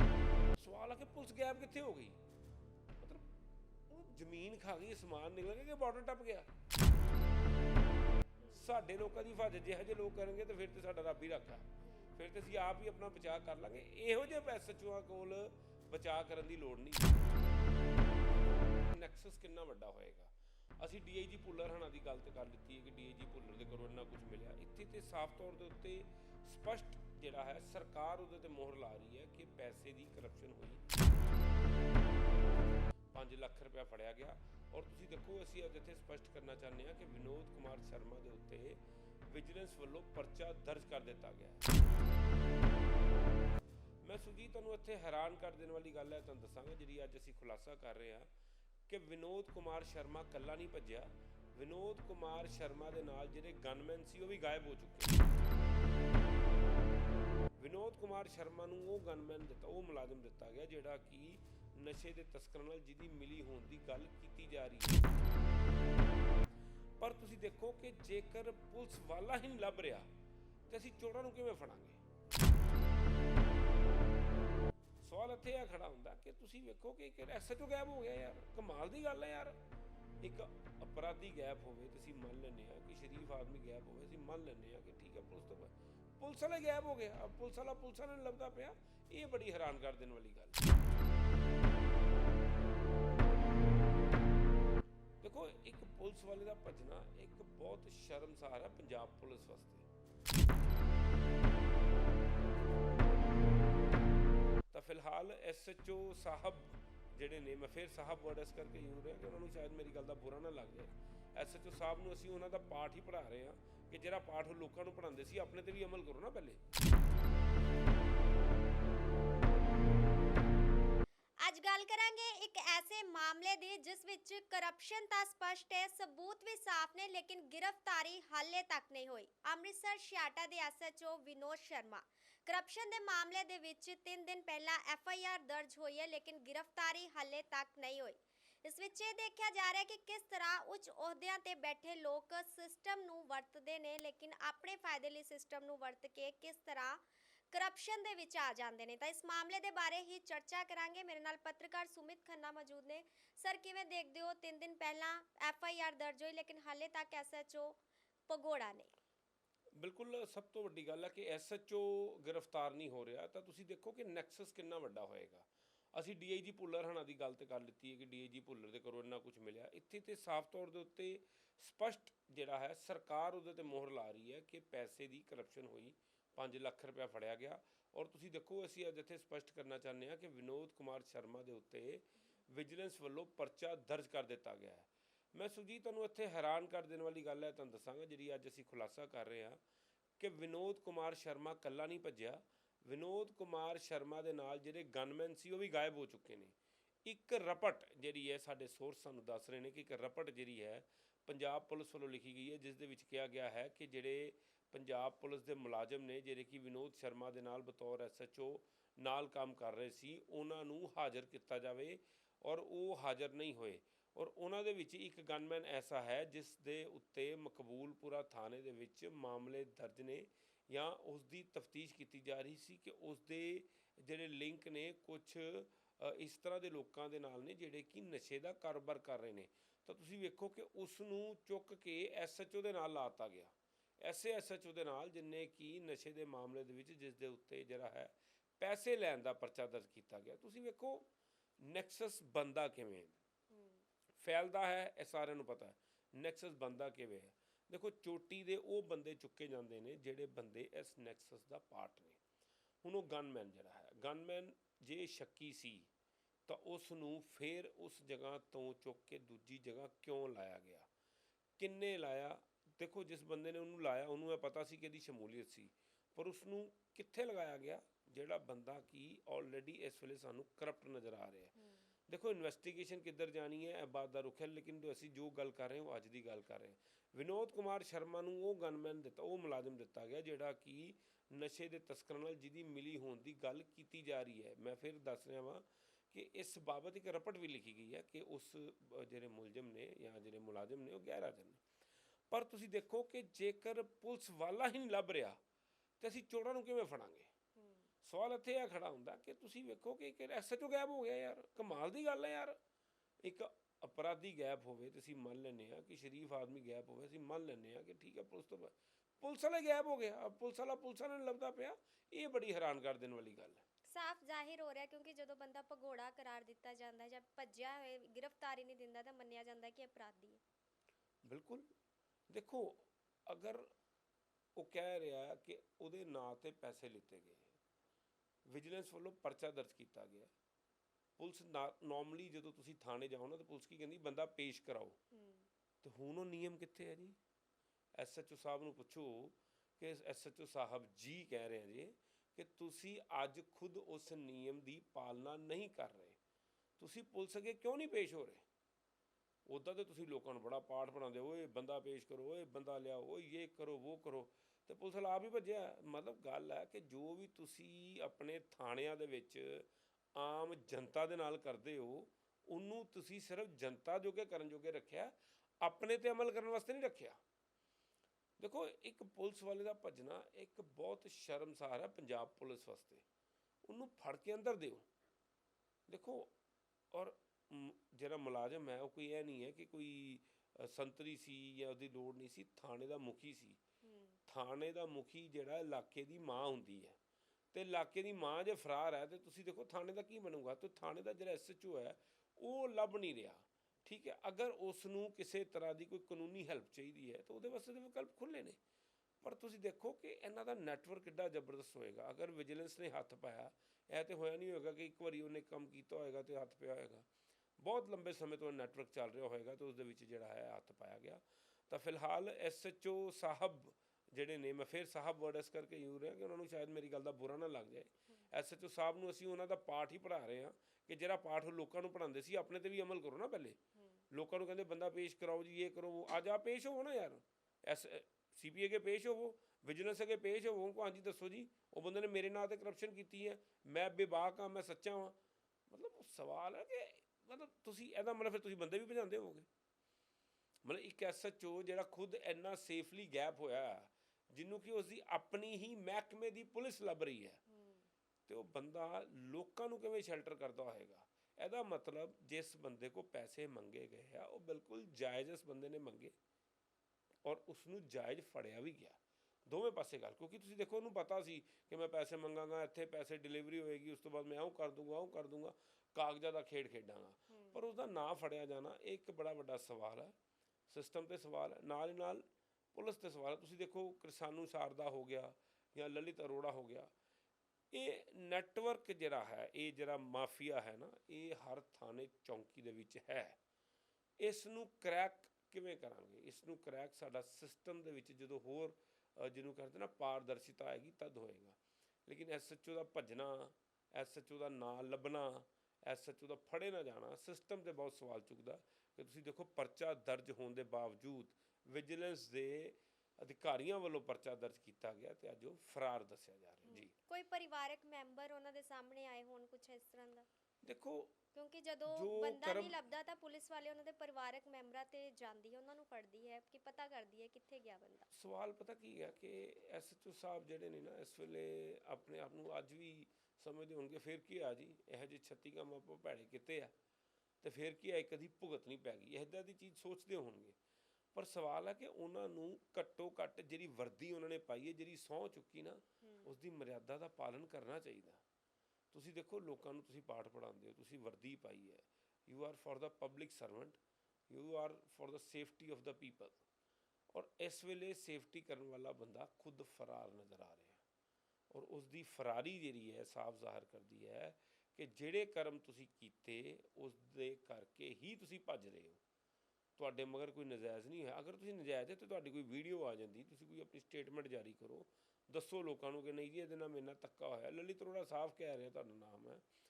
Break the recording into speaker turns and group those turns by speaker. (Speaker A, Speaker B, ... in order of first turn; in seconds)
Speaker A: 0.6-2.2, 3.0-3.3, 3.9-6.5, 8.5-17.2, 18.5-30.9, 33.1-41.7, 44.0-48.3, 48.9-55.5, 57.6-65.2, 67.0-70.1, 70.7-72.0, 75.0-79.6, 80.2-90.7, 95.2-99.9, 104.7-116.6, 159.8-189.6, 190.2-196.6, 197.1-241.1, 241.6-243.2, 244.2-252.2, 252.8-255.9, 256.5-260.9, 261.6-271.6, 272.1-291.6, 292.3-295.4, 296.0-297.3, 298.0-302.6, 303.2-313.6, 321.2-321.7, 322.3-323.7, 324.6-327.5, 328.5-330.3, 331.2-335.0, 335.8-337.2, 338.0-346.2, 346.8-348.5, 349.5-367.2, 368.4-373.0, 373.7-374.9, 375.9-376.3, 376.9-383.6, 384.3-387.0, 387.5-398.6, 399.2-407.1, 407.6-423.6, 424.1-435.2, 435.7-439.5, 440.6-447.4, 448.3-456.1, 457.2-470.1, 470.7-476.9, 477.7-483.4, 484.2-506.9, 510.6-511.2, 511.9-512.8, 518.1-526.7, 527.4-530.6, 531.1-538.2, 538.9-543.8, 544.3-546.4, 547.1-550.8, 551.5-559.0, 559.8-569.4
Speaker B: 8.4-8.7, 11.8-12.2, 121.4-158.9, 243.5-243.8, 297.6-297.9, 313.9-320.4, 335.1-335.5, 383.8-384.2, 423.8-424.0, 447.5-447.9, 467.3-467.6, 506.6-510.3, 511.3-518.1, 536.0-536.3